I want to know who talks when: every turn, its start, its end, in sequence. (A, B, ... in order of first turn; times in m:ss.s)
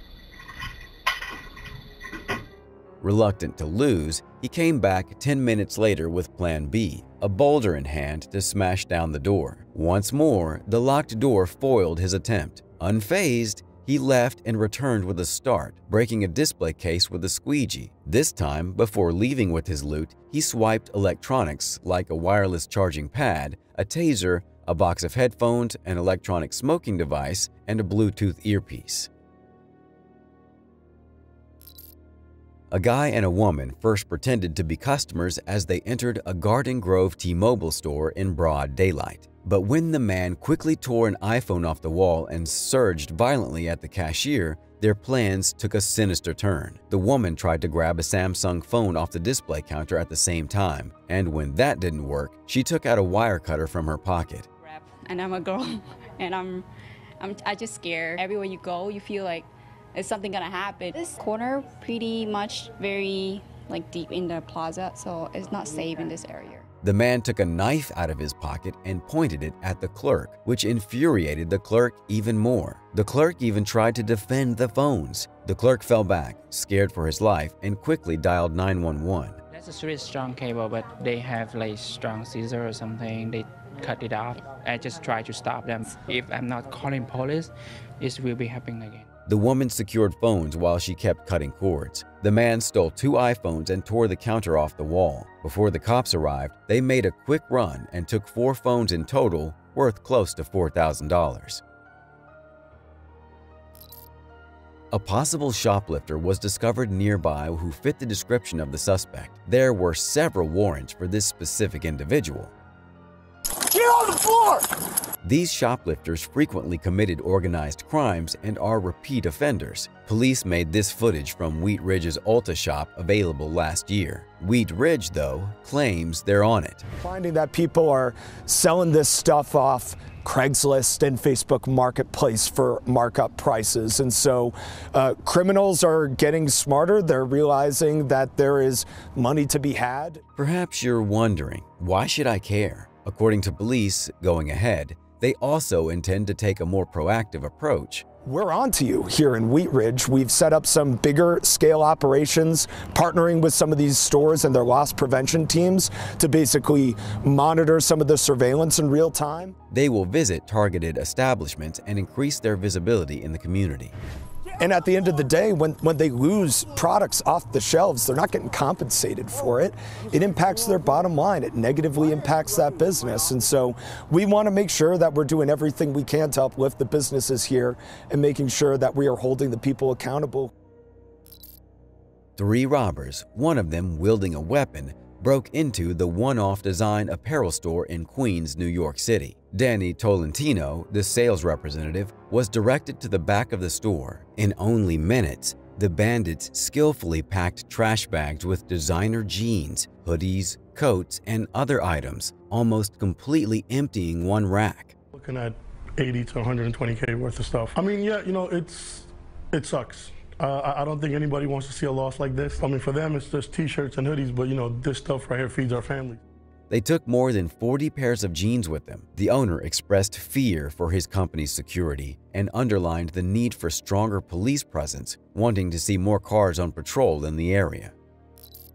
0:03.0-0:29.1 A
0:32.7-0:54.5 A
0:54.6-0:56.6 B
0:57.2-1:06.6 B
1:06.8-1:19.4 A
1:19.5-1:27.5 C
1:28.0-1:29.0 C
1:29.2-1:41.6 A
1:44.9-1:52.5 A
1:55.2-2:06.8 A
2:07.0-2:20.2 D
2:20.4-2:28.0 A
2:28.2-2:39.5 D
2:39.7-2:43.9 A
2:44.6-3:00.5 D
3:02.4-3:24.9 A
3:25.1-3:36.2 E
3:36.7-3:47.9 A